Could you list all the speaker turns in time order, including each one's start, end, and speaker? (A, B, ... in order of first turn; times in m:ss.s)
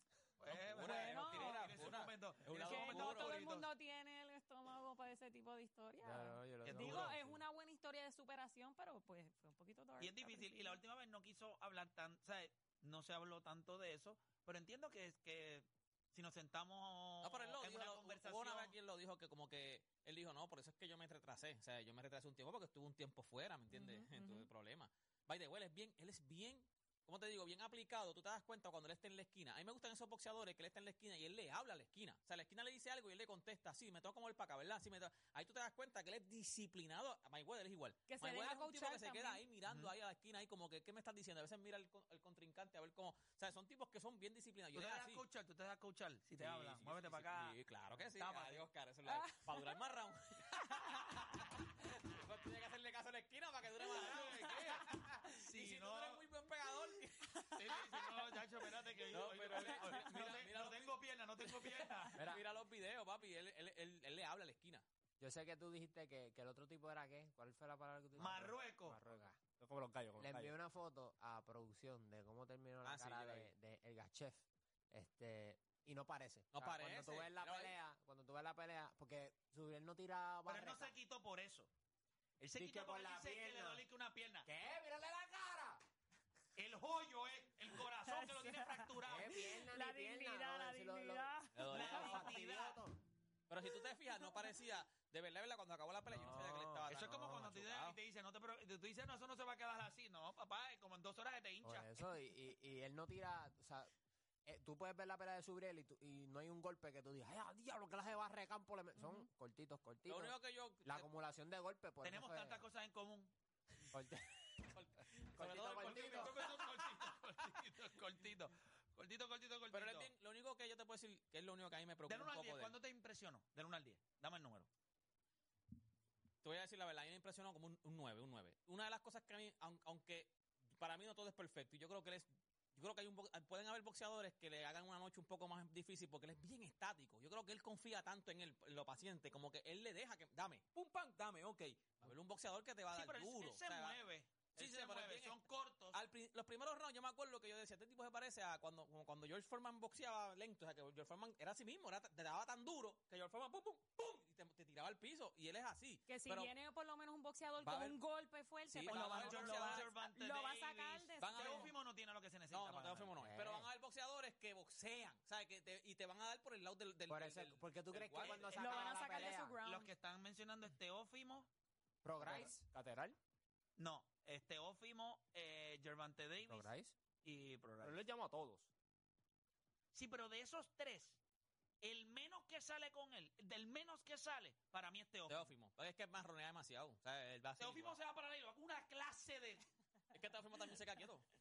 0:00.4-0:03.7 A
0:00.5-0:03.3 B
0:00.9-0:01.7 C
0:02.6-0:10.8 C
0:06.0-0:07.4 D
0:06.6-0:07.2 A
0:10.0-0:18.7 A
0:17.2-0:45.2 B
0:23.7-0:24.5 C
0:38.1-0:39.4 C
0:39.7-0:39.9 A
0:44.7-0:47.6 A
0:46.4-0:58.1 B
0:48.2-0:48.7 A
0:49.1-0:49.8 C
0:53.8-0:56.2 A
0:57.5-1:02.2 A
0:59.0-1:04.8 B
1:05.2-1:09.4 D
1:08.2-1:09.0 A
1:09.6-1:10.5 E
1:10.2-1:20.9 D
1:12.8-1:13.5 B
1:16.5-1:17.8 B
1:20.5-1:21.7 A
1:22.4-1:24.4 A
1:22.6-1:23.8 D
1:24.4-1:25.8 D
1:26.6-1:29.5 A
1:27.9-1:28.9 C
1:29.1-1:32.9 D
1:29.6-1:32.1 C
1:31.5-1:32.3 B
1:31.7-1:32.8 A
1:33.5-1:38.0 B
1:34.0-1:34.5 C
1:36.1-1:36.8 D
1:36.9-1:41.9 A
1:41.6-1:43.9 D
1:44.4-1:52.6 D
1:50.1-1:51.1 B
1:52.0-1:53.3 A
1:53.9-1:54.2 D
1:54.7-1:56.6 B
1:55.4-1:56.4 D
1:55.4-2:00.1 A
1:59.7-2:02.7 B
2:02.1-2:04.7 A
2:06.4-2:24.0 B
2:22.9-2:26.0 A
2:24.6-2:25.4 B
2:25.9-2:36.5 B
2:36.1-2:41.7 C
2:37.6-2:38.0 B
2:38.7-2:39.9 B
2:38.8-2:43.1 A
2:41.2-2:41.7 B
2:42.5-2:48.6 B
2:43.2-2:43.7 D
2:47.1-2:49.5 D
2:48.2-2:51.5 A
2:48.5-2:49.9 C
2:52.0-2:52.6 D
2:52.2-2:53.2 E
2:53.8-2:56.7 A
2:56.5-2:56.9 D
2:57.2-2:58.0 A
2:57.8-2:58.7 E
2:59.9-3:01.2 A
3:01.8-3:05.4 A
3:05.3-3:08.0 B
3:07.6-3:09.6 A
3:10.1-3:11.2 B